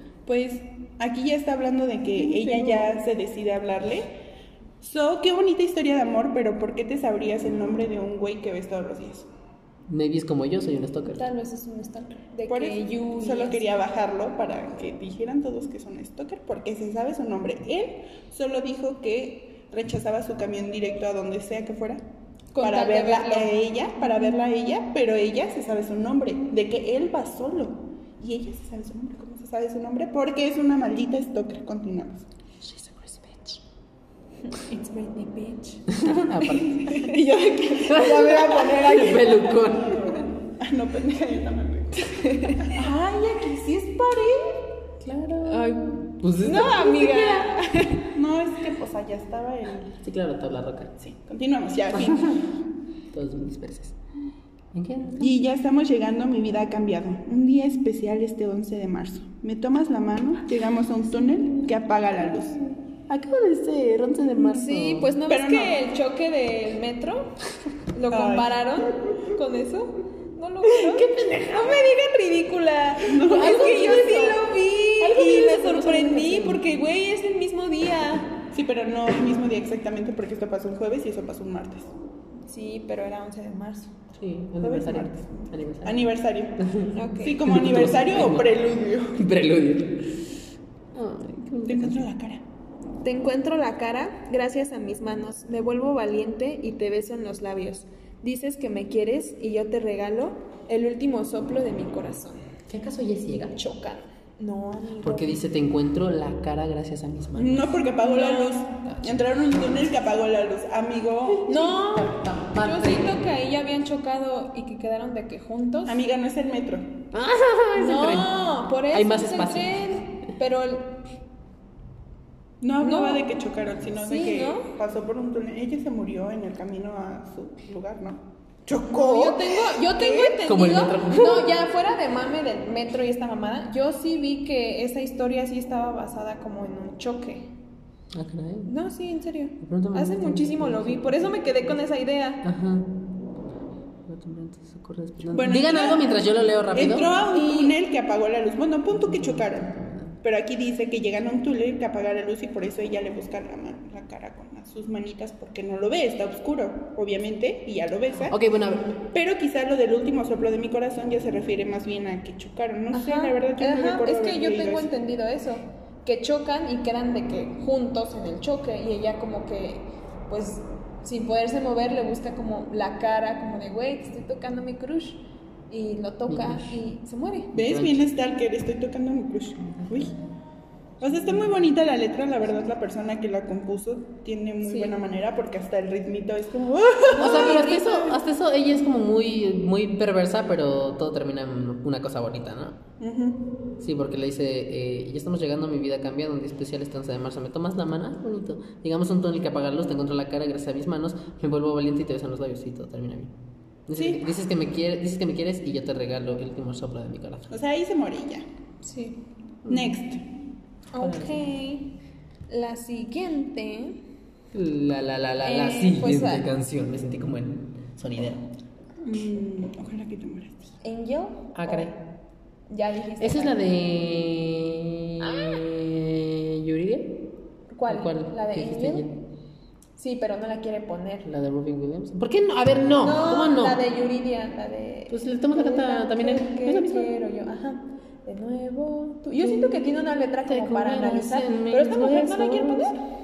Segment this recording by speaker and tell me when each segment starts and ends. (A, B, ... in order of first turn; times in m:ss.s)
0:00.3-0:04.1 A
0:02.2-0:02.9 B
0:04.8-0:09.3 A
0:09.9-0:11.3 C
0:11.1-0:13.7 B
0:12.5-0:22.0 A
0:22.5-0:23.6 B
0:22.6-0:32.3 A
0:32.6-0:33.6 B
0:34.5-0:38.8 B
0:35.9-0:37.1 C
0:37.7-0:44.6 A
0:37.9-0:40.2 C
0:42.0-0:42.8 B
0:45.0-0:47.5 C
0:45.4-0:48.1 B
0:48.1-0:50.0 A
0:50.0-0:51.0 C
0:51.0-0:52.5 A
0:51.9-0:52.4 C
0:53.1-0:54.0 C
0:54.7-0:55.4 C
0:55.2-1:02.6 A
1:03.1-1:05.1 C
1:04.4-1:07.3 B
1:05.3-1:05.8 A
1:07.9-1:18.4 B
1:08.1-1:09.2 A
1:10.6-1:11.9 C
1:13.0-1:14.5 A
1:13.3-1:14.3 C
1:15.0-1:16.6 C
1:15.2-1:15.6 A
1:18.5-1:21.9 A
1:22.5-1:23.9 B
1:24.1-1:26.1 C
1:24.6-1:26.6 A
1:26.6-1:26.9 C
1:26.9-1:27.5 B
1:27.2-1:29.2 A
1:27.4-1:28.6 C
1:29.2-1:30.3 C
1:30.9-1:32.1 C
1:31.7-1:32.4 A
1:33.0-1:42.4 B
1:42.7-1:43.6 C
1:43.5-1:45.4 B
1:45.0-1:47.8 C
1:47.4-1:51.6 A
1:48.0-1:48.6 B
1:48.8-1:49.6 C
1:51.4-1:53.2 C
1:51.4-1:56.0 B
1:55.9-1:57.0 A
1:57.1-1:58.4 C
1:57.8-2:01.0 B
1:58.9-1:59.9 C
2:02.6-2:10.4 A
2:02.8-2:03.3 B
2:04.0-2:04.7 B
2:08.9-2:17.5 B
2:10.4-2:11.5 C
2:18.1-2:18.7 C
2:18.7-2:22.4 B
2:19.6-2:21.3 C
2:22.4-2:23.0 C
2:24.1-2:27.1 C
2:25.3-2:26.2 A
2:26.7-2:29.7 A
2:27.3-2:27.8 B
2:28.9-2:30.2 C
2:30.2-2:38.4 A
2:38.3-2:39.0 C
2:39.1-2:44.9 A
2:42.9-2:57.5 B
2:56.3-2:56.7 C
2:57.6-2:58.1 C
2:57.6-3:00.2 A
3:01.0-3:07.8 A
3:04.6-3:05.0 B
3:07.1-3:08.1 B
3:07.2-3:12.8 C
3:13.0-3:13.5 A
3:13.8-3:23.3 C
3:23.9-3:27.5 C
3:24.0-3:24.2 A
3:27.5-3:28.4 A
3:28.8-3:29.2 B
3:29.6-3:30.0 C
3:29.7-3:30.2 A
3:30.9-3:31.9 B
3:31.0-3:31.4 C
3:32.5-3:34.0 B
3:34.5-3:38.5 C
3:35.4-3:36.5 B
3:39.0-3:40.7 A
3:40.8-3:41.9 B
3:41.5-3:42.0 C
3:42.7-3:43.6 B
3:43.2-3:47.3 C
3:45.2-3:45.6 B
3:47.7-3:49.1 B
3:47.9-3:49.2 C
3:50.0-3:51.3 B
3:51.2-3:53.8 C
3:53.0-4:03.0 B
3:55.1-3:57.2 C
3:59.4-3:59.8 C
4:00.5-4:03.0 C